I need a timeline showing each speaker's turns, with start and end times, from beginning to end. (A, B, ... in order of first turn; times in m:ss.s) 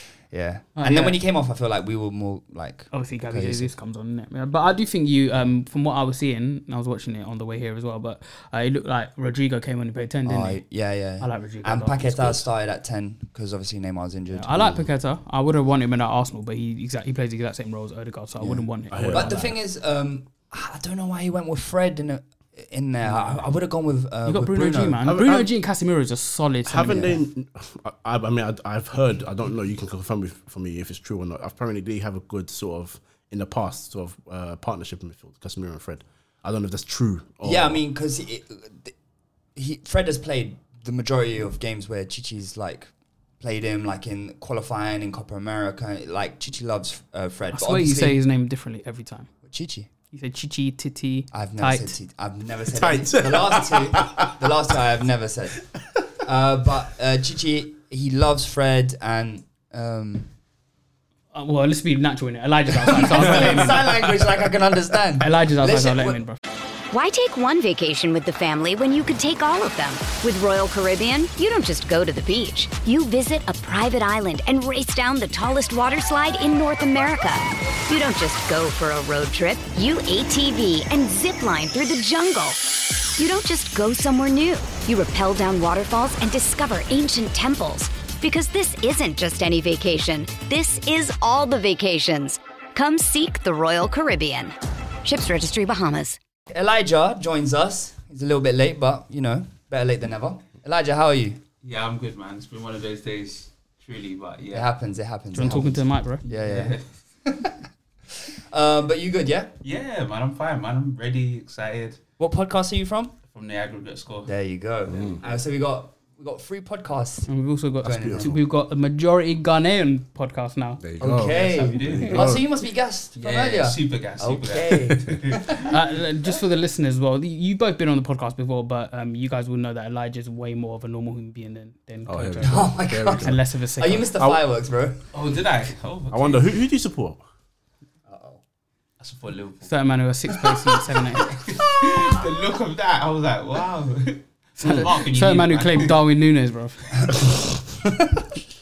0:00.3-0:03.7 A
0:00.8-0:01.2 B
0:02.9-0:10.6 B
0:10.2-0:14.5 A
0:11.2-0:12.0 B
0:14.3-0:19.5 B
0:18.4-0:25.0 A
0:18.9-0:19.5 C
0:24.2-0:27.2 B
0:25.0-0:25.5 C
0:26.6-0:37.8 C
0:37.4-0:38.9 A
0:39.6-0:48.2 A
0:47.5-0:49.3 B
0:49.4-0:49.9 A
0:50.1-0:51.9 B
0:51.3-0:55.6 A
0:52.7-0:54.6 C
0:56.2-1:00.3 A
1:01.3-1:03.9 B
1:02.8-1:06.2 A
1:03.5-1:04.3 C
1:05.2-1:06.4 B
1:06.9-1:36.2 D
1:36.5-1:41.4 A
1:41.6-1:44.7 E
1:44.5-1:47.6 A
1:45.3-1:46.2 B
1:46.2-1:46.8 E
1:48.5-1:49.5 A
1:49.6-1:52.0 E
1:52.2-1:53.2 A
1:53.2-1:54.3 E
1:54.2-1:57.3 A
1:54.9-1:55.2 C
1:57.3-2:00.8 B
1:57.8-1:58.3 A
1:57.8-1:58.4 C
2:00.8-2:02.4 C
2:01.0-2:05.6 A
2:01.3-2:02.4 E
2:03.1-2:05.6 E
2:05.6-2:14.1 B
2:12.0-2:13.4 C
2:12.4-2:15.0 A
2:14.1-2:14.4 C
2:15.1-2:16.5 E
2:16.1-2:17.2 C
2:18.1-2:18.4 A
2:19.0-2:19.7 E
2:19.6-2:21.3 B
2:21.2-2:26.0 E
2:21.9-2:22.1 A
2:24.6-2:26.8 B
2:24.6-2:24.9 C
2:27.0-2:27.3 A
2:27.9-2:28.2 A